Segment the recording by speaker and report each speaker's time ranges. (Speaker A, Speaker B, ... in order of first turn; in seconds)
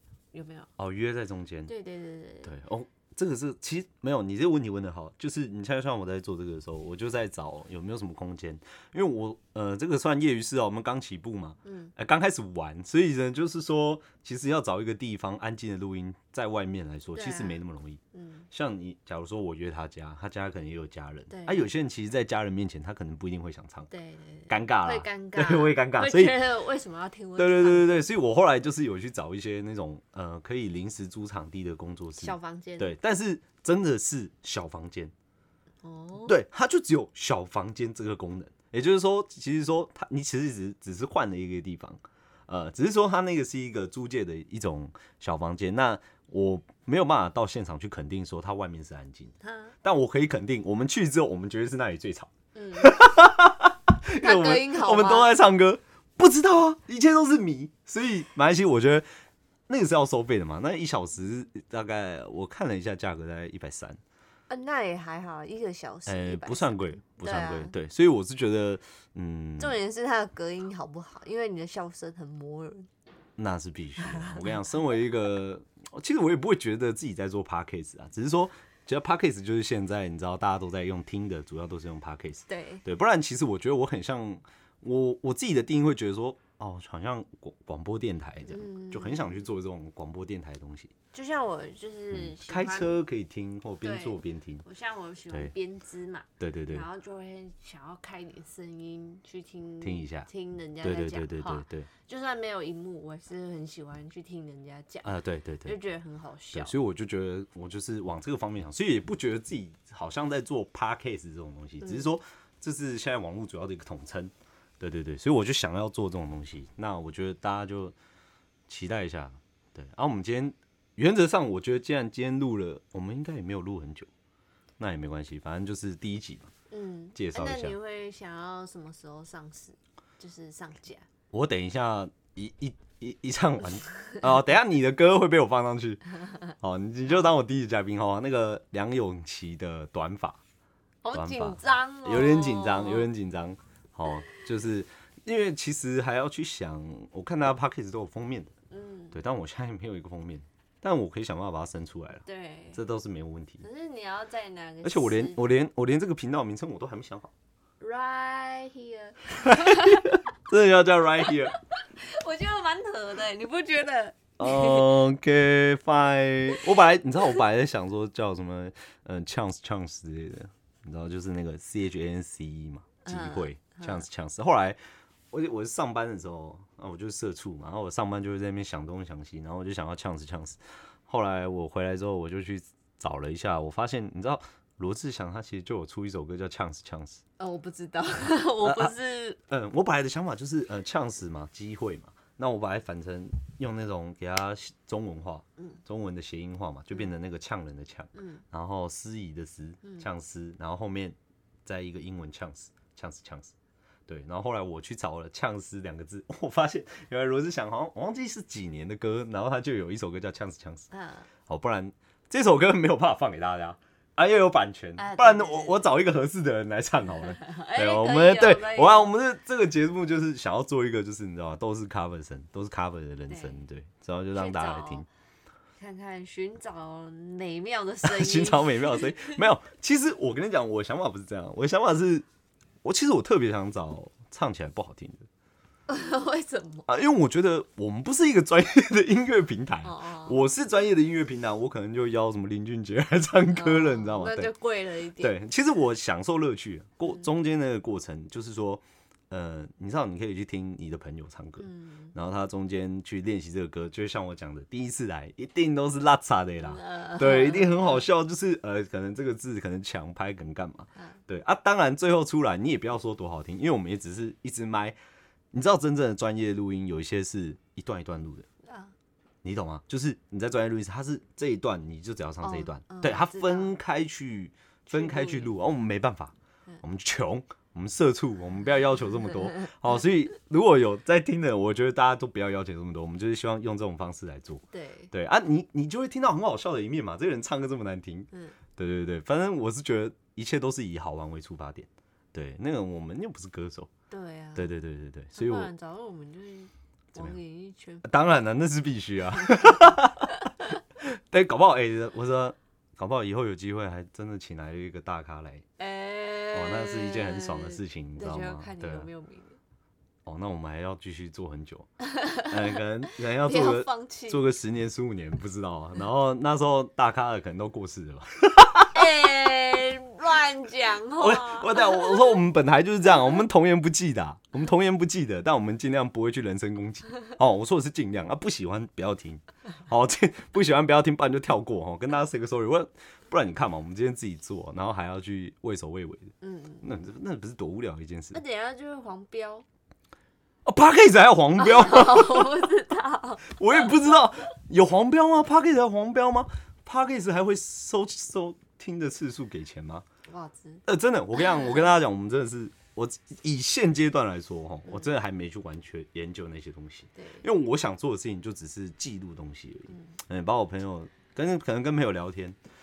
Speaker A: 0.3-0.7, 1.7-2.5, 11.6-11.9, 17.1-17.6, 18.1-18.5, 21.3-21.7, 23.9-28.1, 32.2-32.9, 35.8-36.3, 49.4-49.7, 52.5-53.0, 54.2-55.3, 64.5-67.7, 69.6-72.9, 74.0-74.6, 82.5-82.8, 88.5-89.5, 91.1-93.0, 93.8-105.1, 105.6-106.7, 111.8-112.1, 126.7-131.1, 141.0-143.1, 148.7-149.2, 152.2-152.8, 153.6-155.4, 157.8-160.2, 161.2-165.0, 173.0-174.0, 187.4-189.4, 198.1-198.4, 210.9-211.3, 215.0-215.9, 217.1-219.1, 223.3-223.6, 224.3-225.1, 225.8-229.4, 235.9-236.9, 239.8-240.4, 243.5-245.4, 251.6-252.1, 256.6-258.1, 268.6-268.9, 272.4-273.8, 274.9-275.5, 284.7-285.1, 288.3-288.6, 294.1-294.7, 295.3-298.1, 299.4-300.0, 305.8-309.6, 312.0-314.4, 318.9-322.4, 336.4-336.9, 338.3-339.6, 341.6-344.1, 350.3-350.8, 351.4-351.9, 354.9-355.1, 357.1-357.5, 359.9-360.1
Speaker B: 0.8-1.7, 2.4-18.0, 18.5-23.9, 24.5-26.4, 27.4-35.1, 36.2-59.1, 59.7-64.0, 66.0-69.8, 73.4-90.9, 92.1-94.6, 96.4-96.9, 99.8-100.3, 100.8-101.9, 105.0-105.8, 106.5-118.0, 118.7-124.1, 124.8-126.5, 127.1-127.8, 131.3-136.0, 136.5-140.4, 141.1-148.5, 149.1-153.6, 154.8-157.3, 159.4-161.6, 164.4-174.8, 175.3-187.2, 188.6-188.9, 189.5-203.5, 204.1-210.9, 211.5-225.1, 228.0-232.2, 232.8-235.2, 236.9-244.5, 245.2-265.0, 265.5-268.5, 269.4-293.9, 294.5-295.7, 298.0-300.4, 301.0-305.6, 306.5-309.1, 310.2-311.9, 312.4-319.1, 321.2-338.4, 340.6-342.6, 343.5-350.0, 350.9-362.6